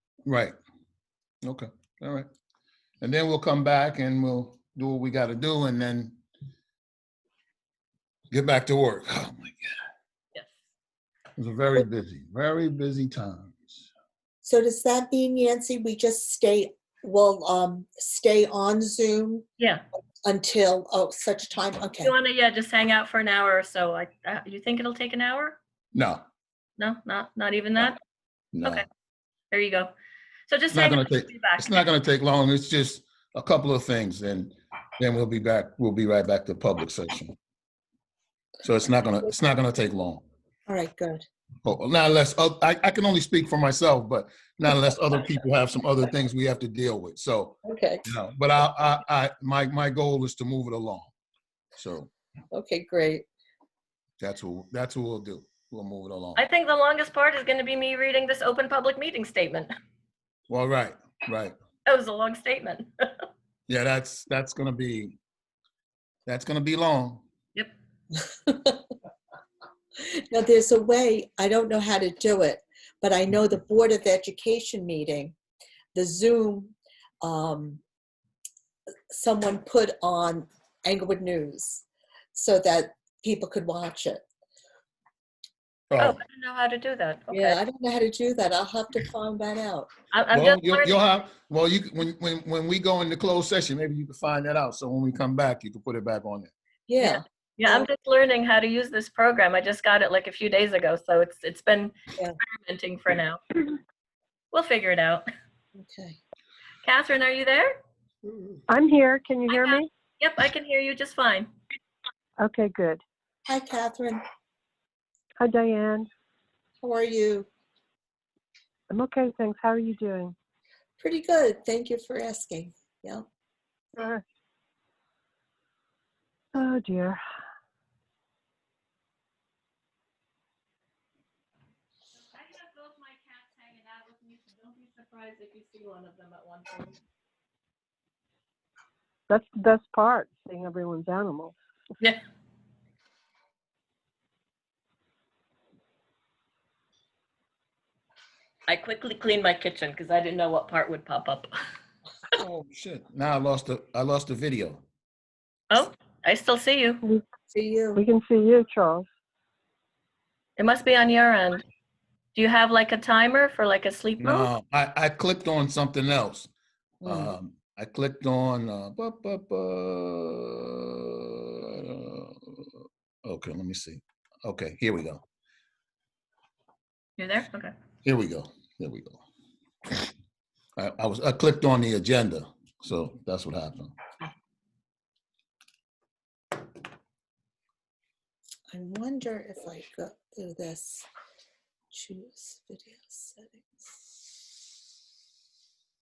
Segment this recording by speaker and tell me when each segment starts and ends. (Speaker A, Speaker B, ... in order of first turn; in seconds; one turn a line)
Speaker A: 0.3-0.6
Speaker A: 1.4-2.3
Speaker A: 3.0-6.2
Speaker A: 8.3-9.8
Speaker A: 11.4-13.8
Speaker B: 14.4-19.5
Speaker B: 20.2-22.1
Speaker C: 22.0-25.6
Speaker A: 25.9-26.2
Speaker C: 26.8-28.0
Speaker A: 28.5-28.9
Speaker C: 29.5-29.9
Speaker C: 30.5-31.9
Speaker A: 30.7-37.4
Speaker A: 38.6-40.2
Speaker B: 40.7-41.2
Speaker A: 41.6-47.6
Speaker B: 47.6-48.0
Speaker A: 48.1-51.1
Speaker A: 51.8-52.1
Speaker B: 52.5-53.3
Speaker A: 54.2-56.4
Speaker C: 56.4-59.7
Speaker A: 60.5-61.5
Speaker C: 61.9-63.2
Speaker A: 63.7-65.2
Speaker A: 66.3-67.2
Speaker B: 68.2-68.8
Speaker B: 70.0-75.4
Speaker B: 75.9-77.8
Speaker B: 79.1-84.2
Speaker A: 85.9-86.2
Speaker C: 86.0-87.6
Speaker B: 87.3-89.9
Speaker C: 90.1-91.0
Speaker A: 90.3-96.5
Speaker B: 96.9-97.9
Speaker C: 97.0-103.4
Speaker C: 104.5-105.2
Speaker B: 105.8-106.2
Speaker C: 106.8-107.8
Speaker A: 108.3-108.6
Speaker D: 108.7-109.9
Speaker C: 109.5-111.5
Speaker D: 112.4-113.0
Speaker B: 113.5-114.2
Speaker D: 115.4-116.1
Speaker B: 116.8-117.5
Speaker D: 118.9-120.3
Speaker B: 121.0-123.3
Speaker D: 124.0-124.2
Speaker D: 126.5-127.2
Speaker C: 132.1-137.0
Speaker D: 139.3-141.6
Speaker C: 148.7-151.5
Speaker A: 152.4-154.8
Speaker C: 155.7-157.0
Speaker B: 157.5-158.0
Speaker D: 157.9-159.1
Speaker C: 160.6-161.6
Speaker C: 162.3-164.5
Speaker A: 164.2-166.5
Speaker A: 167.0-172.7
Speaker B: 167.0-167.3
Speaker A: 173.2-175.2
Speaker C: 177.2-177.7
Speaker A: 178.1-179.2
Speaker A: 180.8-184.0
Speaker B: 188.7-191.1
Speaker B: 191.9-194.0